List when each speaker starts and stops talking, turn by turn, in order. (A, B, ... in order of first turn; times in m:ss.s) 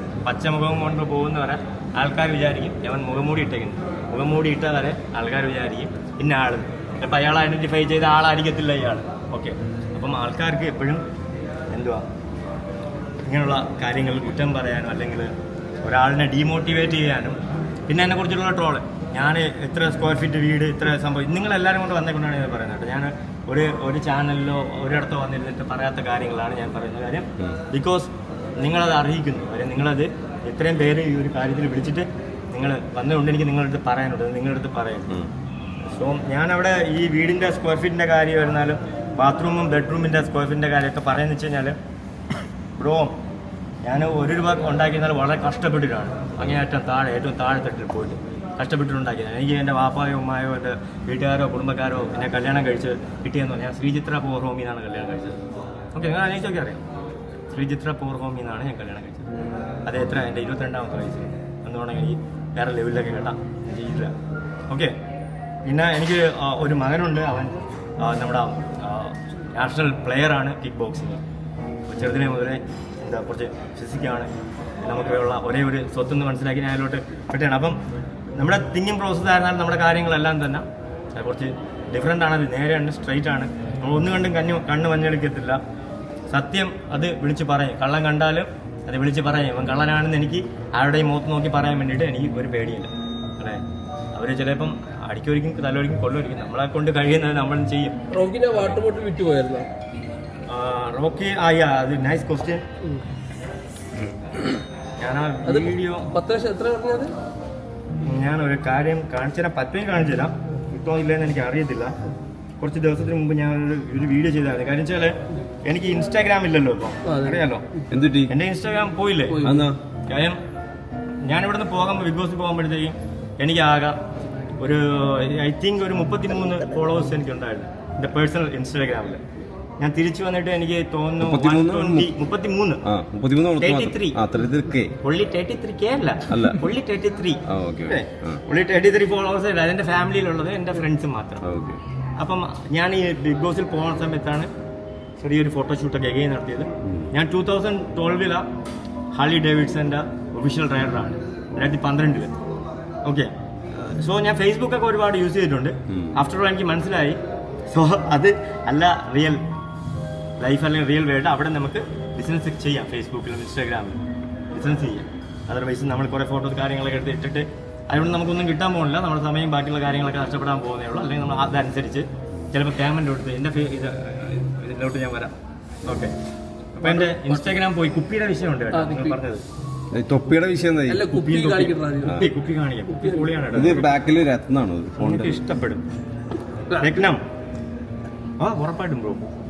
0:00.2-0:11.0 A
0:11.7-0:12.0 A
0:13.3-0:15.3 A
0:15.8-0:17.4 A
0:17.9-0:35.1 A
0:35.9-0:41.8 A
0:42.8-0:43.1 A
0:43.8-0:55.4 A
0:55.9-0:56.8 A
0:57.5-0:59.3 A
0:59.8-1:04.1 A
1:05.6-1:11.2 A
1:11.9-1:14.3 A
1:14.8-1:17.8 A
1:18.4-1:25.6 A
1:26.3-1:33.6 A
1:34.1-1:38.0 A
1:38.1-1:39.7 B
1:40.5-1:42.6 A
1:45.0-1:46.1 A
1:45.4-1:47.1 B
1:48.0-1:51.9 A
1:52.6-1:57.6 A
1:57.0-1:57.5 B
1:57.9-1:58.3 C
1:58.3-1:59.5 A
1:59.3-1:59.7 B
1:59.4-1:59.8 C
2:00.1-2:00.4 A
2:01.2-2:04.0 A
2:04.6-2:09.2 A
2:09.8-2:12.8 A
2:11.2-2:12.1 C
2:12.8-2:14.9 C
2:13.6-2:14.2 A
2:15.0-2:21.4 A
2:16.3-2:16.6 C
2:17.5-2:18.4 C
2:21.4-2:21.8 C
2:22.2-2:24.5 A
2:25.2-2:28.4 A
2:29.1-2:32.3 A
2:33.0-2:37.2 A
2:35.9-2:36.2 C
2:37.7-2:39.4 A
2:40.4-2:44.0 A
2:44.5-2:55.3 A
2:55.8-2:56.1 A
2:56.7-2:59.4 A
2:56.8-2:57.4 B
2:58.7-2:59.2 B
2:59.9-3:01.1 C
3:00.9-3:02.3 B
3:01.1-3:03.9 A
3:02.9-3:03.3 B
3:03.5-3:05.4 C
3:05.0-3:05.8 A
3:06.7-3:07.0 B
3:06.8-3:07.2 A
3:08.4-3:09.2 A